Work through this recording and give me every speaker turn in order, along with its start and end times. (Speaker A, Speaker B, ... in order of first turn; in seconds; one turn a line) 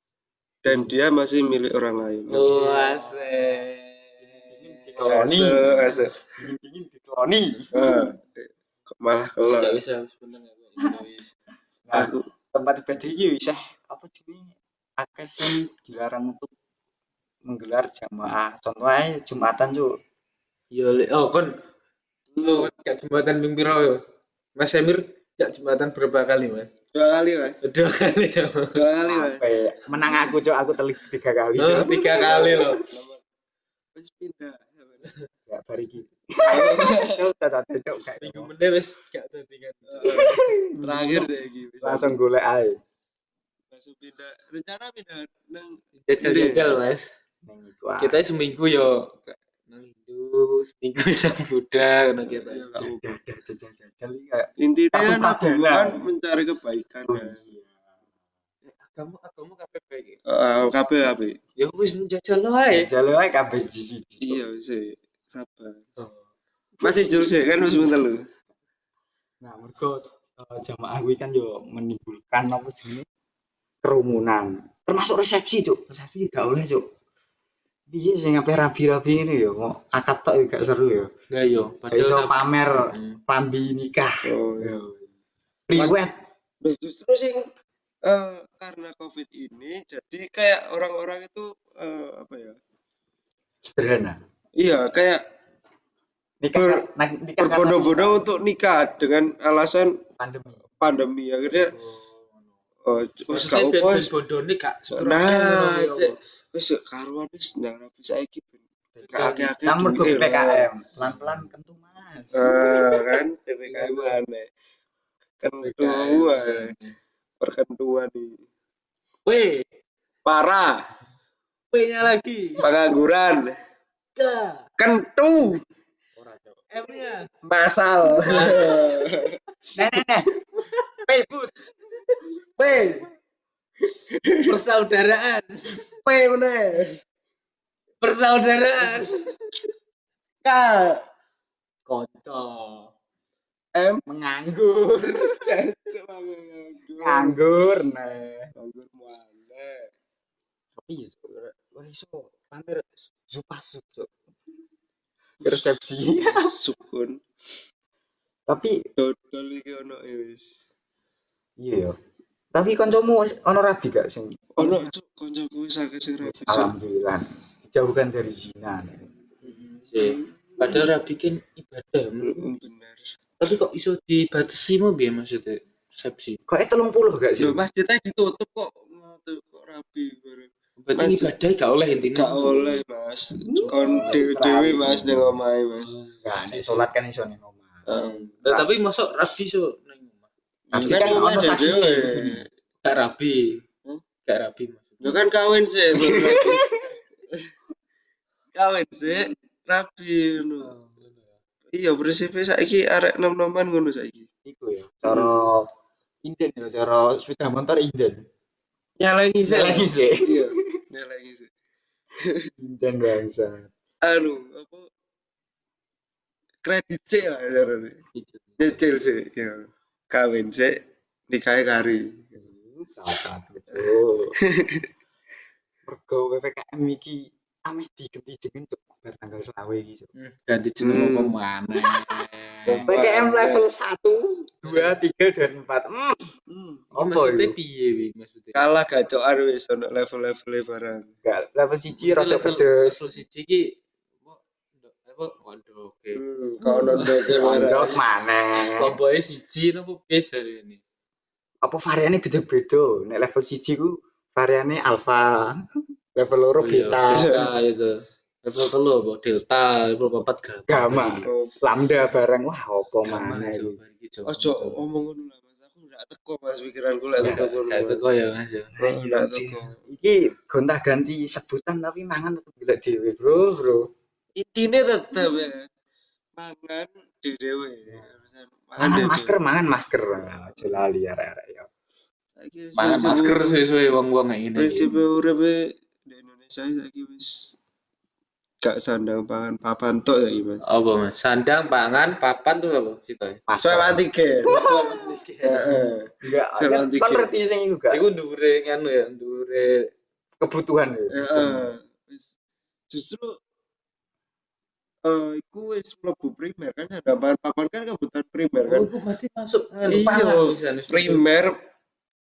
Speaker A: 0.6-2.5
Speaker B: 2.3-5.2
Speaker C: 2.3-3.6
Speaker C: 4.2-7.9
Speaker A: 5.1-6.2
Speaker A: 7.7-9.8
Speaker B: 9.5-11.3
Speaker C: 11.9-16.5
Speaker A: 11.9-12.3
Speaker C: 17.5-19.9
Speaker B: 20.7-21.5
Speaker A: 22.3-22.7
Speaker B: 22.4-24.0
Speaker B: 24.6-26.7
Speaker A: 26.9-27.6
Speaker B: 27.6-28.8
Speaker A: 28.7-29.5
Speaker C: 29.1-32.1
Speaker B: 31.6-32.8
Speaker A: 32.2-33.2
Speaker A: 34.0-35.1
Speaker C: 35.5-38.5
Speaker A: 36.5-37.2
Speaker B: 38.2-40.4
Speaker A: 39.9-42.2
Speaker C: 40.1-41.3
Speaker C: 41.8-42.8
Speaker A: 43.7-46.7
Speaker B: 46.0-47.1
Speaker C: 47.5-48.2
Speaker B: 48.0-52.6
Speaker A: 52.2-53.1
Speaker C: 52.8-56.0
Speaker A: 54.6-57.4
Speaker C: 57.1-57.8
Speaker B: 58.7-60.2
Speaker A: 60.3-61.4
Speaker B: 61.6-62.9
Speaker C: 62.7-64.4
Speaker A: 64.2-65.8
Speaker B: 66.8-67.2
Speaker A: 66.8-68.2
Speaker C: 69.4-73.1
Speaker C: 73.8-76.8
Speaker C: 77.9-81.1
Speaker B: 81.3-83.2
Speaker C: 81.9-85.1
Speaker A: 84.2-84.9
Speaker C: 85.7-86.1
Speaker A: 86.6-87.4
Speaker A: 88.1-92.6
Speaker C: 93.7-94.2
Speaker A: 94.6-95.2
Speaker C: 96.4-98.3
Speaker A: 96.6-96.8
Speaker A: 97.4-99.9
Speaker C: 100.2-100.6
Speaker A: 100.8-101.8
Speaker B: 101.7-102.4
Speaker A: 102.8-104.1
Speaker B: 103.3-106.1
Speaker A: 104.9-110.7
Speaker B: 109.0-109.5
Speaker C: 109.6-112.8
Speaker B: 111.0-111.5
Speaker A: 112.3-114.5
Speaker B: 113.7-114.2
Speaker A: 115.4-116.7
Speaker B: 115.6-117.0
Speaker A: 117.4-118.4
Speaker B: 119.3-119.7
Speaker A: 120.2-120.9
Speaker B: 121.7-122.7
Speaker A: 122.6-123.5
Speaker B: 124.2-124.7
Speaker A: 124.8-125.6
Speaker C: 126.2-126.6
Speaker B: 126.8-127.3
Speaker A: 126.8-129.4
Speaker B: 128.2-128.7
Speaker C: 129.8-130.3
Speaker C: 131.1-131.6
Speaker A: 132.6-133.1
Speaker A: 134.2-134.5
Speaker B: 134.4-135.8
Speaker A: 136.0-136.9
Speaker B: 138.0-139.1
Speaker A: 138.8-139.1
Speaker A: 140.4-141.0
Speaker B: 141.9-142.9
Speaker A: 143.7-144.0
Speaker C: 144.1-145.5
Speaker A: 145.1-147.4
Speaker C: 147.0-148.5
Speaker A: 148.6-149.8
Speaker C: 150.8-154.1
Speaker C: 155.4-156.5
Speaker A: 156.2-157.2
Speaker C: 158.5-158.8
Speaker A: 159.0-160.5
Speaker C: 161.6-161.9
Speaker C: 162.5-164.9
Speaker A: 164.6-166.7
Speaker C: 166.2-169.1
Speaker B: 169.4-172.4
Speaker A: 169.9-170.8
Speaker A: 172.2-173.0
Speaker B: 173.4-176.4
Speaker C: 176.5-177.6
Speaker A: 177.4-181.4
Speaker B: 180.8-182.8
Speaker A: 182.1-185.9
Speaker B: 183.4-184.1
Speaker C: 183.7-185.4
Speaker B: 185.8-186.9
Speaker C: 186.2-187.9
Speaker A: 187.9-188.3
Speaker B: 187.9-190.3
Speaker A: 190.7-192.4
Speaker C: 190.7-192.4
Speaker B: 190.8-191.3
Speaker B: 192.8-193.5
Speaker B: 194.2-195.2
Speaker A: 195.0-196.7
Speaker C: 196.2-196.8
Speaker A: 198.5-200.8
Speaker B: 200.5-201.4
Speaker A: 201.7-204.3
Speaker C: 204.5-205.6
Speaker A: 205.1-205.5
Speaker C: 206.2-208.2
Speaker A: 209.0-211.5
Speaker C: 209.4-210.6
Speaker C: 212.6-213.7
Speaker A: 214.0-214.8
Speaker A: 216.7-218.0
Speaker A: 218.6-220.8
Speaker A: 221.3-222.4
Speaker C: 222.4-224.3
Speaker A: 224.6-224.9
Speaker C: 225.9-230.1
Speaker B: 230.2-232.8
Speaker A: 230.8-231.4
Speaker A: 232.7-233.7
Speaker C: 232.8-236.3
Speaker B: 234.6-235.0
Speaker A: 236.5-236.8
Speaker C: 236.9-237.5
Speaker B: 236.9-238.7
Speaker A: 238.6-241.1
Speaker C: 241.2-243.0
Speaker B: 242.0-243.6
Speaker B: 244.2-246.2
Speaker A: 246.2-247.9
Speaker C: 246.6-248.9
Speaker B: 246.9-248.0
Speaker B: 248.7-250.8
Speaker C: 251.6-255.5
Speaker C: 256.1-257.3
Speaker B: 256.6-257.9
Speaker A: 257.1-257.5
Speaker B: 258.4-261.3
Speaker C: 260.7-263.8
Speaker A: 261.2-261.6
Speaker B: 263.0-264.8
Speaker A: 264.3-268.0
Speaker C: 267.2-267.5
Speaker B: 267.2-268.7
Speaker C: 268.8-273.8
Speaker A: 268.8-269.8
Speaker A: 274.4-275.7
Speaker A: 276.4-279.4
Speaker C: 278.8-281.7
Speaker A: 282.4-283.6
Speaker B: 282.8-284.9
Speaker A: 284.6-287.6
Speaker A: 288.6-290.6
Speaker B: 290.6-293.4
Speaker C: 293.5-294.9
Speaker A: 293.6-294.5
Speaker B: 294.4-295.9
Speaker A: 295.4-297.3
Speaker C: 296.2-298.0
Speaker B: 297.9-299.8
Speaker C: 300.4-301.7
Speaker A: 301.1-302.3
Speaker A: 302.9-303.3
Speaker A: 305.1-308.9
Speaker B: 308.7-311.2
Speaker A: 309.9-311.6